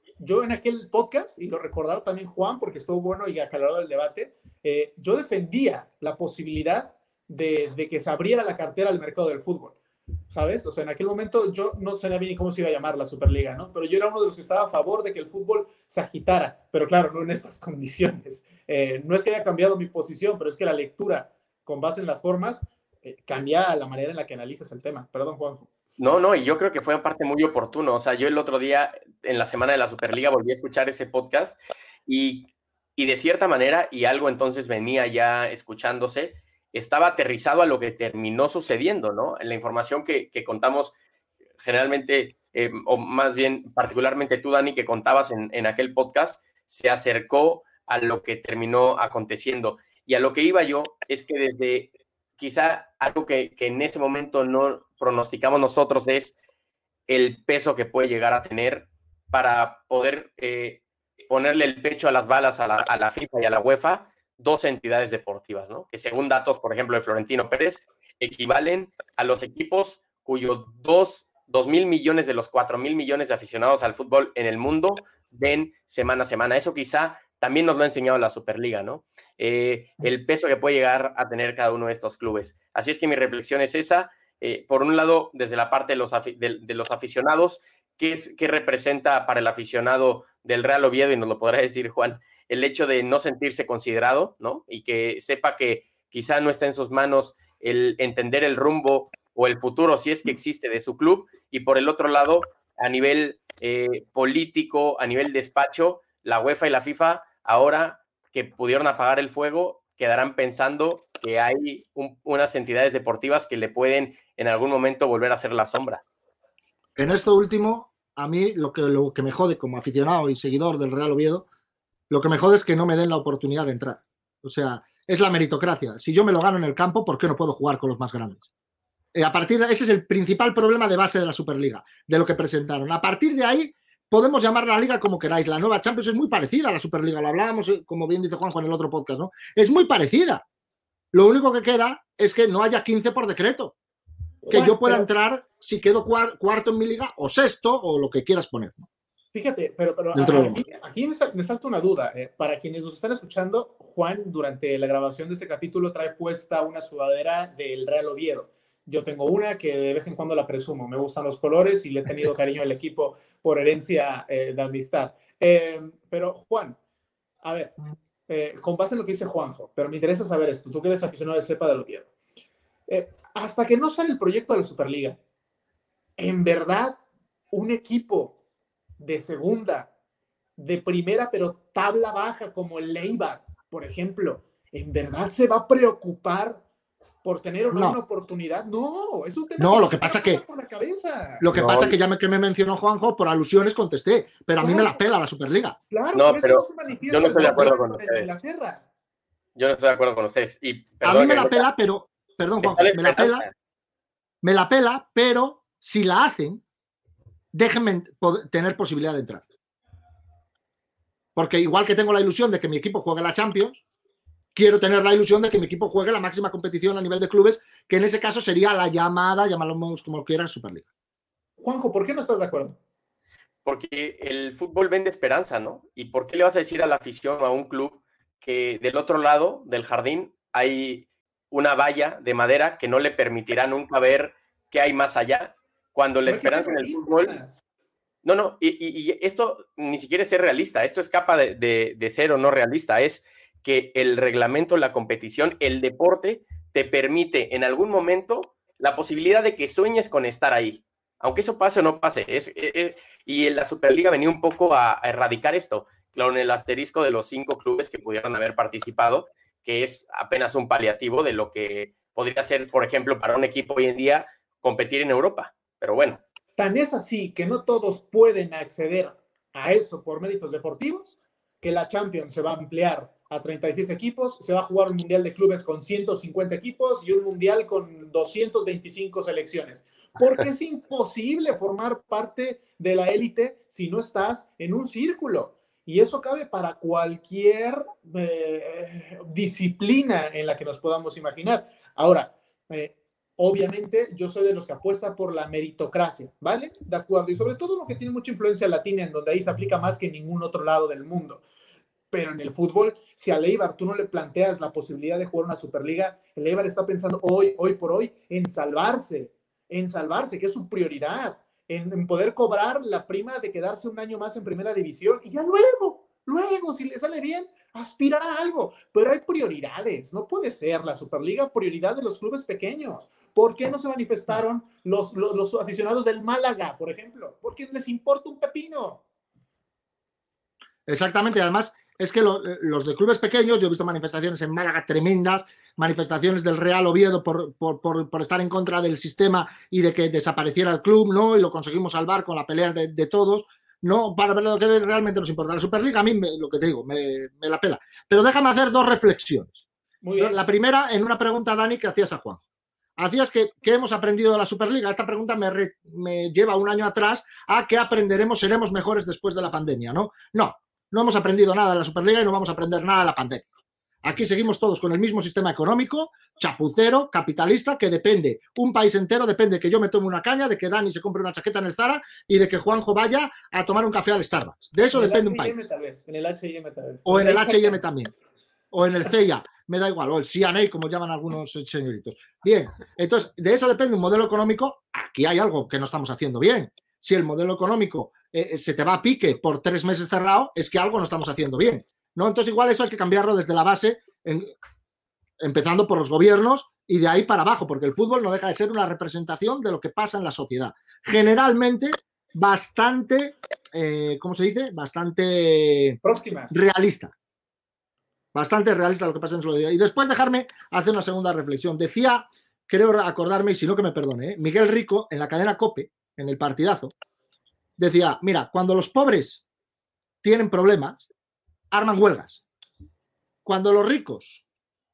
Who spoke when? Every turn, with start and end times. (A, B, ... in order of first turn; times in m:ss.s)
0:00.2-0:09.8 A
0:10.3-0:25.7 A
0:26.0-0:40.9 B
0:41.6-0:56.4 B
0:57.1-1:56.0 B
1:57.0-2:01.4 C
2:02.1-2:08.4 C
2:09.1-2:20.4 C
2:21.1-2:23.7 C
2:24.4-2:25.1 A
2:24.5-2:28.8 C
2:29.3-2:46.8 A
2:30.1-2:30.6 C
2:47.4-2:47.7 A
2:48.3-2:52.1 A
2:52.9-2:55.2 A
2:56.2-2:57.0 A
2:57.5-2:58.4 A
2:59.0-2:59.9 A
3:00.6-3:06.6 A
3:07.2-3:11.5 A
3:07.7-3:08.0 C
3:09.6-3:10.4 C
3:11.4-3:15.8 C
3:11.5-3:12.0 B
3:14.6-3:15.0 A
3:15.9-3:18.8 A
3:16.1-3:18.4 B
3:17.3-3:17.7 C
3:19.5-3:21.6 B
3:21.0-3:23.4 C
3:22.6-3:23.5 B
3:24.4-3:26.6 C
3:27.5-3:29.4 C
3:31.4-3:33.8 C
3:34.5-3:40.9 C
3:41.6-3:42.8 A
3:43.6-3:57.4 B
3:56.2-3:57.6 A
3:58.2-4:26.2 B
4:26.6-5:01.4 A
5:02.1-5:29.0 A
5:30.8-5:49.6 C
5:50.0-5:50.4 A
5:50.2-5:52.4 C
5:53.0-6:03.4 C
6:04.0-6:15.5 C
6:14.9-6:17.8 A
6:17.0-6:18.1 C
6:18.7-6:34.5 C
6:35.4-6:46.0 C
6:46.0-6:46.5 A
6:46.5-6:47.1 C
6:48.3-6:56.9 C
6:57.8-6:59.4 C
7:00.2-7:01.0 C
7:01.7-7:02.4 C
7:03.4-7:04.4 C